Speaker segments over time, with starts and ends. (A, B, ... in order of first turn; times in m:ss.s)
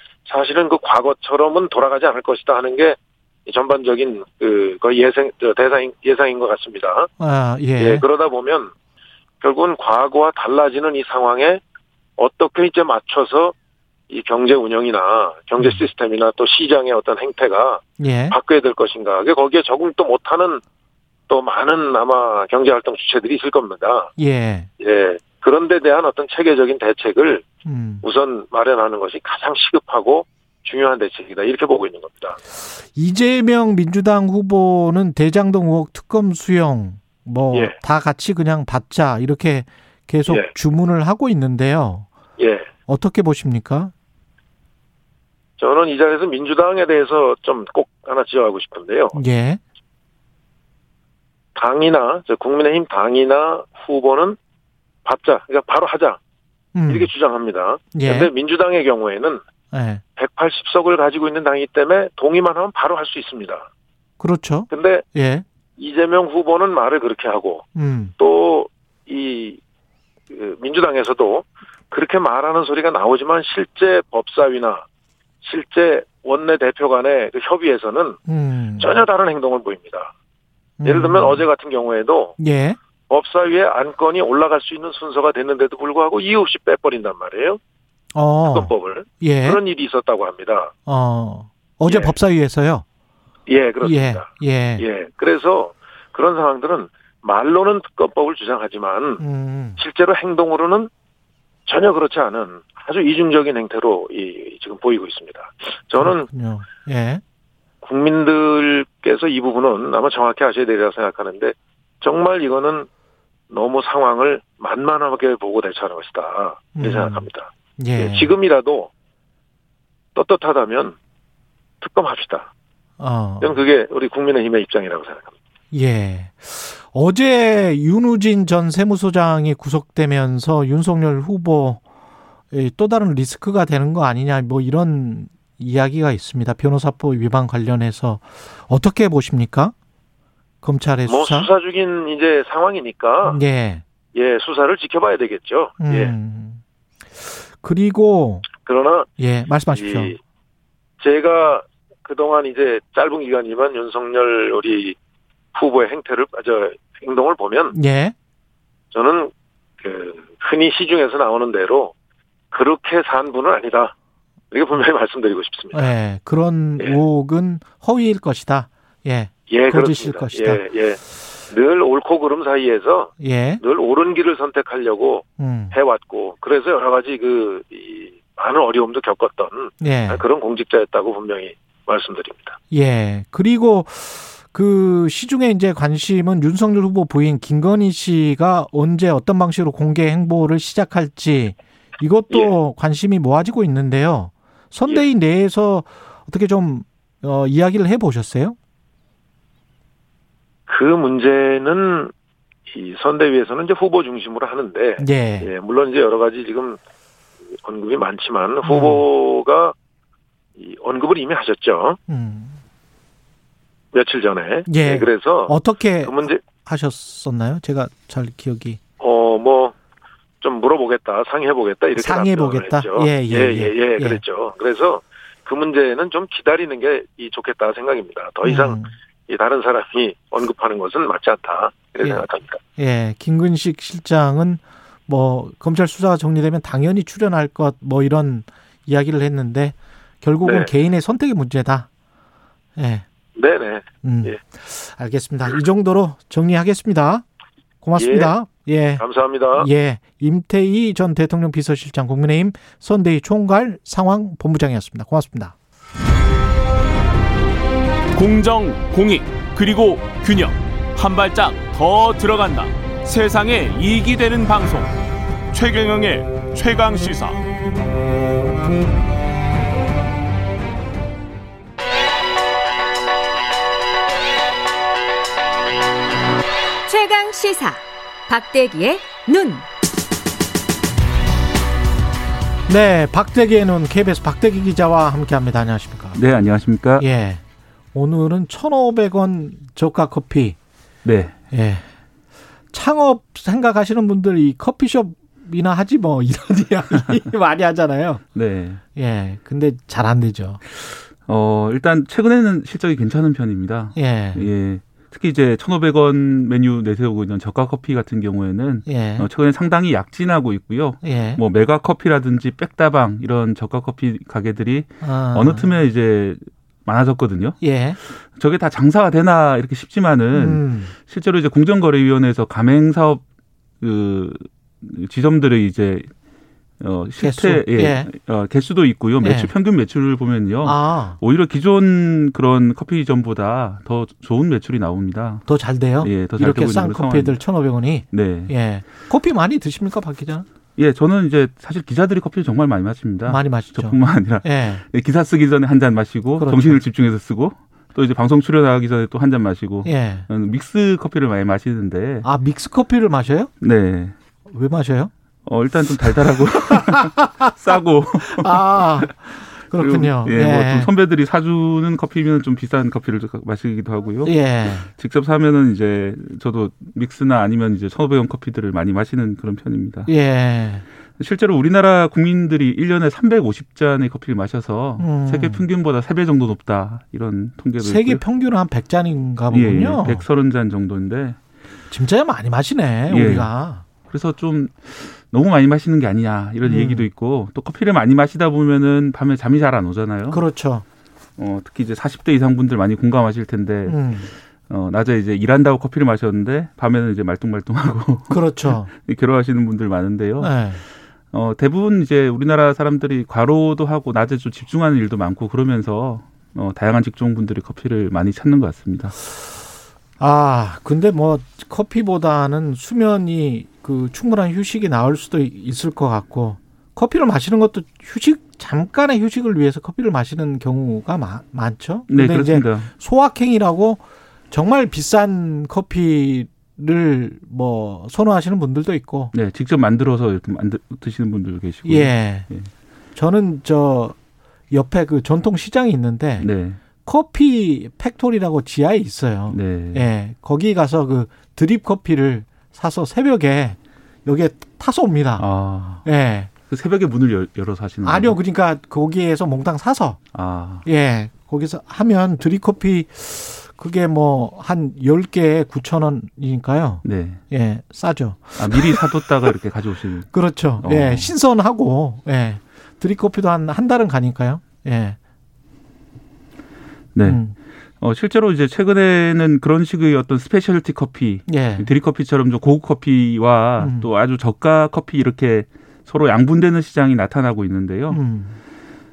0:00.3-0:07.1 A
0:07.2-0:08.0 B
0:07.8-0:08.7 A
0:09.4-0:11.6 A
0:12.2-0:13.5 A
0:14.1-0:20.6 A
0:18.0-0:18.4 B
0:21.3-0:24.1 A
0:24.2-0:24.7 B
0:24.8-0:27.4 A
0:27.6-0:28.0 B
0:28.0-0:32.4 A
0:32.9-0:42.1 B
0:42.4-0:42.7 A
0:42.9-0:43.9 B
0:45.6-0:49.2 A
0:49.1-0:49.6 B
0:51.5-0:54.4 A
0:55.0-0:56.2 A
0:56.7-0:57.1 B
0:56.9-0:59.4 A
0:57.9-0:58.3 B
0:59.7-1:00.0 B
1:00.2-1:03.6 A
1:04.2-1:05.4 B
1:04.7-1:05.0 A
1:05.8-1:07.6 A
1:07.7-1:08.1 B
1:08.2-1:09.6 A
1:10.3-1:14.8 A
1:15.4-1:18.2 A
1:18.3-1:19.0 B
1:18.8-1:20.1 A
1:20.8-1:21.4 B
1:20.8-1:22.3 A
1:22.4-1:22.8 B
1:23.1-1:27.6 A
1:28.1-1:29.6 B
1:28.4-1:30.7 A
1:30.8-1:32.8 B
1:31.8-1:32.2 A
1:33.5-1:34.3 A
1:33.8-1:34.8 B
1:34.8-1:39.2 A
1:39.2-1:39.8 B
1:39.8-1:40.9 A
1:41.7-1:46.2 A
1:46.0-1:47.2 B
1:47.8-1:52.9 A
1:53.5-1:58.9 A
1:56.7-1:58.3 B
2:00.1-2:01.0 A
2:01.8-2:02.5 A
2:03.0-2:03.6 B
2:03.4-2:05.3 A
2:05.7-2:11.8 B
2:12.5-2:19.7 B
2:20.6-2:21.5 B
2:21.1-2:23.4 A
2:23.2-2:23.8 B
2:24.1-2:26.1 A
2:25.8-2:26.6 B
2:27.2-2:28.5 B
2:28.5-2:29.1 A
2:29.2-2:30.1 B
2:29.7-2:30.2 A
2:31.0-2:35.0 A
2:35.5-2:37.7 A
2:37.7-2:38.1 B
2:38.9-2:41.9 A
2:42.5-2:43.9 A
2:44.5-2:45.9 A
2:45.7-2:50.6 B
2:49.5-2:51.0 A
2:51.5-3:02.6 A
2:53.2-2:53.6 B
2:55.4-2:55.7 B
2:59.8-3:00.2 B
3:02.7-3:18.6 B
3:20.7-3:22.1 A
3:22.7-3:26.8 A
3:25.0-3:25.5 B
3:27.6-3:29.7 A
3:28.6-3:29.0 B
3:30.6-3:32.0 A
3:32.1-3:32.6 B
3:33.9-3:36.4 A
3:34.7-3:38.8 B
3:39.0-3:39.7 A
3:40.4-3:52.6 A
3:42.0-3:44.2 B
3:48.4-3:48.9 B
3:52.0-3:52.2 B
3:52.8-4:01.9 B
4:00.4-4:00.7 A
4:02.8-4:03.0 B
4:03.4-4:04.4 A
4:04.0-4:07.2 B
4:07.8-4:15.5 B
4:08.0-4:08.3 A
4:09.0-4:09.7 A
4:18.1-4:24.9 C
4:25.5-4:27.4 C
4:36.8-4:39.6 D
4:42.7-4:46.2 B
4:46.2-4:47.0 E
4:47.0-4:47.4 B
4:47.9-4:50.6 B
4:51.0-4:51.3 E
4:51.5-4:51.8 B
4:52.7-4:58.2 B
4:58.3-4:58.8 E
4:59.0-5:00.6 B
5:00.8-5:23.2 E
5:04.0-5:04.5 B
5:08.8-5:09.3 B
5:11.0-5:11.4 B
5:15.0-5:15.7 B
5:17.6-5:18.0 B
5:20.3-5:20.9 B
5:23.8-5:26.1 E
5:26.8-5:35.5 E
5:27.2-5:28.1 B
5:29.2-5:29.5 B
5:30.6-5:31.2 B
5:35.5-5:40.5 B
5:36.0-5:37.4 E
5:38.1-5:38.5 E
5:40.8-5:52.3 E
5:43.3-5:44.8 B
5:46.4-5:46.8 B
5:49.8-5:50.3 B
5:52.2-5:53.5 B
5:53.6-5:54.1 E
5:54.4-5:55.1 B
5:55.4-5:59.1 E
5:56.7-5:57.5 B
5:58.2-6:00.9 B
5:59.7-6:04.4 E
6:04.2-6:04.9 B
6:05.0-6:10.1 E
6:10.1-6:10.8 B
6:11.2-6:18.2 E
6:15.0-6:15.6 B
6:17.8-6:20.2 B
6:19.5-6:21.4 E
6:21.9-6:23.8 B
6:23.1-6:23.5 E
6:24.0-6:30.4 E
6:26.6-6:27.0 B
6:30.3-6:30.8 B
6:31.4-6:40.7 E
6:33.9-6:34.3 B
6:38.3-6:38.9 B
6:40.4-6:40.8 B
6:41.3-6:49.1 E
6:50.2-7:09.3 B
7:02.1-7:02.9 E
7:09.3-7:12.7 E
7:11.8-7:12.5 B
7:13.2-7:14.2 B
7:14.7-7:16.5 B
7:16.4-7:16.8 E
7:17.0-7:25.5 B
7:19.5-7:20.1 E
7:25.4-7:26.0 E
7:26.0-7:26.5 B
7:26.7-7:28.4 E
7:28.0-7:30.2 B
7:30.3-7:30.8 E
7:30.8-7:39.0 B
7:37.0-7:37.4 E
7:38.6-7:41.3 E
7:40.3-7:45.2 B
7:47.1-7:47.4 E
7:47.2-7:47.5 B
7:48.0-7:58.2 E
7:51.5-7:51.9 B
7:53.8-7:54.1 B
7:58.1-7:58.6 B